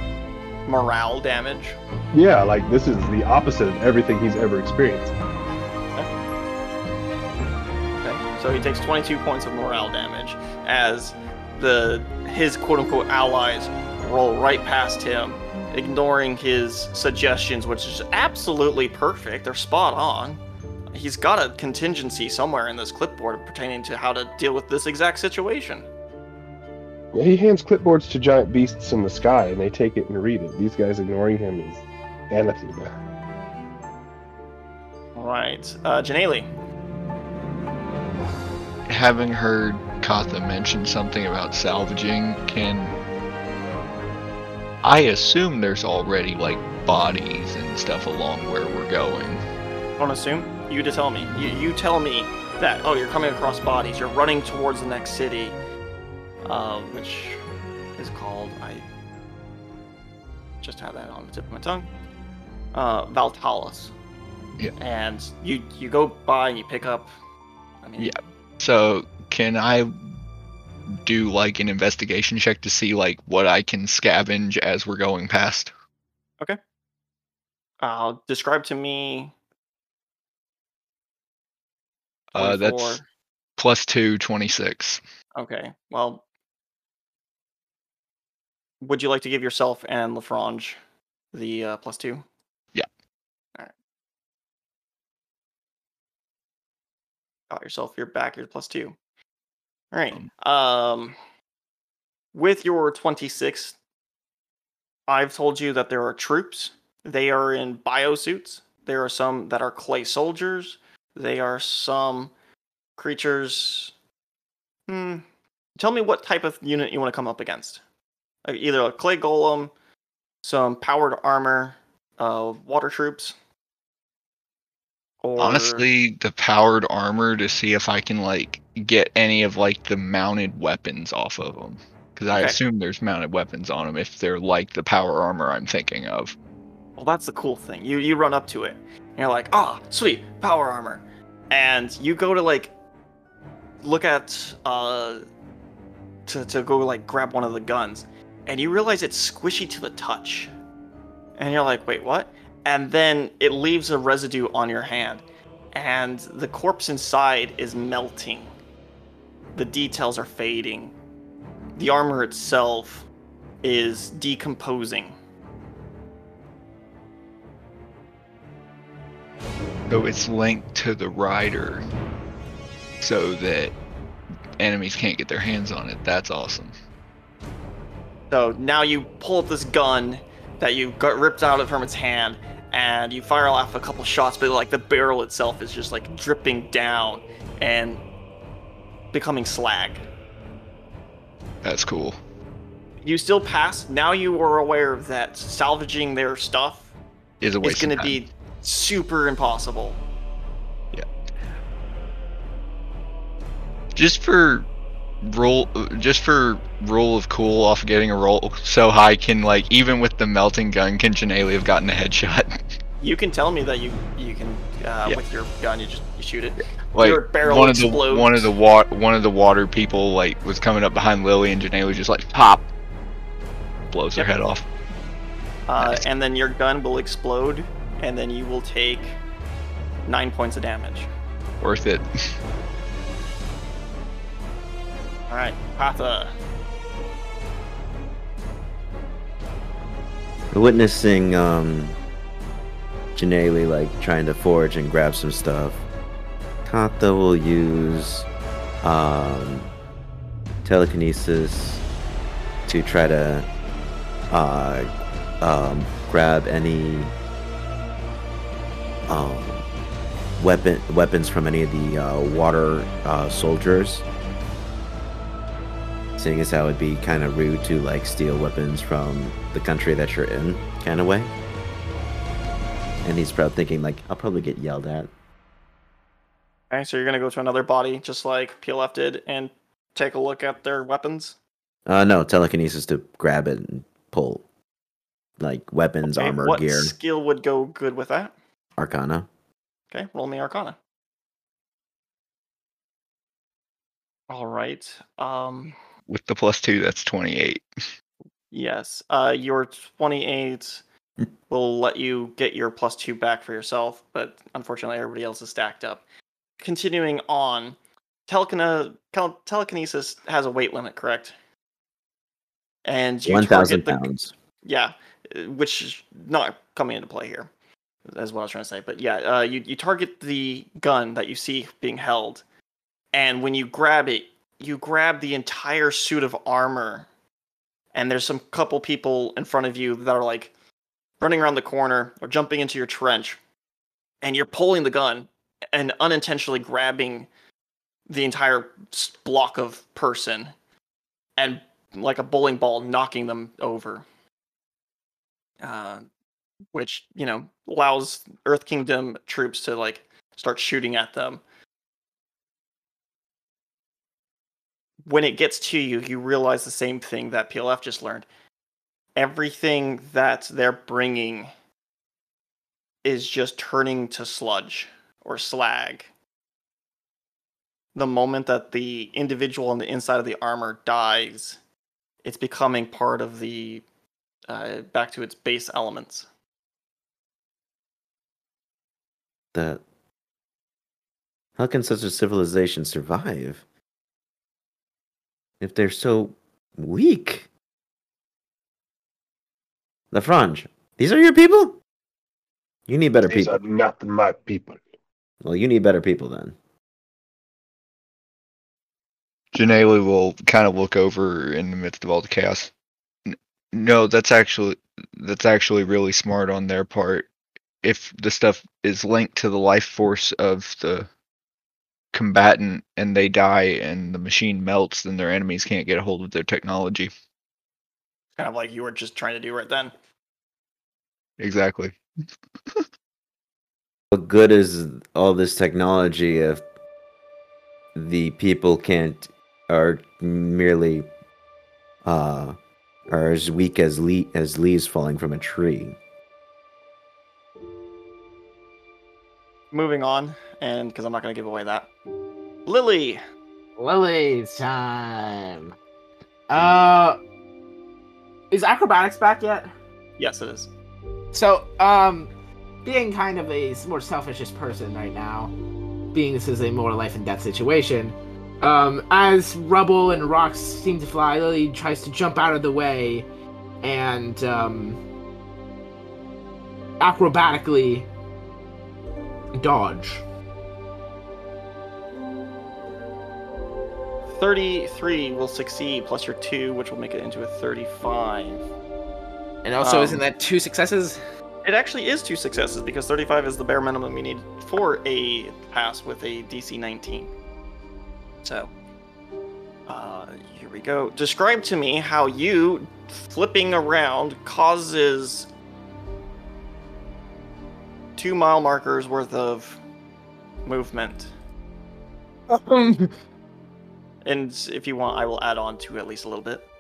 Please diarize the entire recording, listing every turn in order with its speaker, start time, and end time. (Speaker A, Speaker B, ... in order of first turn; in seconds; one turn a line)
Speaker A: 0.7-1.8
Speaker B: 2.1-5.1
Speaker A: 8.0-25.9
Speaker B: 27.1-32.9
Speaker A: 35.2-36.5
Speaker C: 38.9-43.0
Speaker C: 44.8-49.4
Speaker A: 50.0-55.6
Speaker A: 56.5-57.4
Speaker A: 58.0-58.9
Speaker A: 60.6-61.9
Speaker A: 62.7-63.9
Speaker A: 64.8-67.1
Speaker A: 67.8-68.1
Speaker C: 68.0-70.0
Speaker C: 70.9-75.7
Speaker A: 77.8-79.3
Speaker C: 82.3-83.0
Speaker A: 82.4-83.0
Speaker C: 83.6-85.0
Speaker A: 85.3-86.2
Speaker A: 88.8-90.8
Speaker A: 91.3-92.2
Speaker A: 97.5-99.0
Speaker A: 99.9-101.2
Speaker A: 102.3-103.8
Speaker A: 105.1-112.3
Speaker A: 113.0-113.9
Speaker A: 114.9-115.2
Speaker A: 115.8-117.8
Speaker A: 118.5-119.7
Speaker A: 120.4-123.3
Speaker A: 125.2-125.8
Speaker C: 125.4-136.3
Speaker A: 132.3-132.6
Speaker A: 137.0-142.7
Speaker A: 143.8-145.2
Speaker A: 146.3-150.5
Speaker A: 151.4-158.5
Speaker A: 159.6-160.9
Speaker A: 161.8-163.1
Speaker A: 163.6-165.1
Speaker C: 169.9-171.8
Speaker C: 173.0-173.7
Speaker C: 174.6-176.7
Speaker A: 178.3-188.0
Speaker A: 189.1-190.0
Speaker C: 191.6-192.2
Speaker A: 193.0-196.9
Speaker C: 197.4-198.2
Speaker A: 197.6-200.0
Speaker C: 203.9-204.7
Speaker C: 205.2-212.6
Speaker A: 213.0-218.5
Speaker C: 216.6-222.7
Speaker C: 223.9-224.7
Speaker A: 225.7-229.2
Speaker C: 225.8-226.0
Speaker A: 230.1-231.1
Speaker C: 231.6-232.1
Speaker A: 235.3-236.3
Speaker D: 240.5-242.0
Speaker D: 243.2-245.8
Speaker D: 246.7-248.3
Speaker D: 248.8-249.7
Speaker D: 250.6-251.8
Speaker D: 252.7-253.5
Speaker D: 254.3-254.9
Speaker D: 255.4-257.1
Speaker D: 259.1-259.7
Speaker D: 260.4-264.1
Speaker D: 266.2-271.3
Speaker D: 273.0-275.1
Speaker A: 276.7-281.4
Speaker D: 281.9-284.4
Speaker D: 285.4-286.9
Speaker A: 286.1-288.3
Speaker D: 288.8-289.3
Speaker A: 289.9-290.8
Speaker A: 294.3-295.8
Speaker C: 296.1-297.7
Speaker A: 298.5-300.8
Speaker A: 301.5-306.0
Speaker A: 306.6-311.4
Speaker A: 312.9-314.1
Speaker D: 313.3-314.3
Speaker A: 314.6-317.5
Speaker A: 318.1-322.4
Speaker A: 323.1-327.1
Speaker A: 327.9-330.5
Speaker A: 331.2-333.4
Speaker A: 334.2-337.3
Speaker A: 338.1-340.5
Speaker A: 341.4-344.1
Speaker A: 345.6-346.1
Speaker A: 346.7-351.4
Speaker A: 355.1-358.3
Speaker A: 359.2-361.5
Speaker A: 363.0-366.1
Speaker A: 367.9-371.6
Speaker A: 372.2-373.8
Speaker A: 374.5-376.3
Speaker D: 379.5-379.8
Speaker D: 381.6-383.6
Speaker D: 385.6-387.5
Speaker D: 390.1-391.8
Speaker D: 392.9-393.6
Speaker B: 393.2-394.8
Speaker D: 395.4-396.6
Speaker C: 399.5-402.7
Speaker C: 403.3-407.3
Speaker C: 407.8-411.1
Speaker C: 412.1-417.1
Speaker A: 418.4-419.9
Speaker C: 421.4-422.0
Speaker D: 424.1-426.6
Speaker D: 427.9-431.1
Speaker D: 432.0-432.6
Speaker D: 433.1-436.0
Speaker A: 439.7-441.9
Speaker A: 442.7-443.2
Speaker E: 443.8-445.7
Speaker E: 446.5-447.2
Speaker E: 448.5-449.7
Speaker A: 450.2-450.7
Speaker E: 451.3-452.3
Speaker E: 452.8-455.5
Speaker E: 456.1-463.3
Speaker E: 463.8-465.0
Speaker E: 467.0-468.1
Speaker E: 469.6-470.2
Speaker A: 474.3-478.7
Speaker E: 479.6-481.2
Speaker A: 479.8-480.2
Speaker A: 481.6-487.3
Speaker A: 488.4-488.7
Speaker A: 489.9-495.5
Speaker A: 498.2-499.8
Speaker A: 500.6-501.3
Speaker E: 502.5-503.1
Speaker A: 504.2-506.7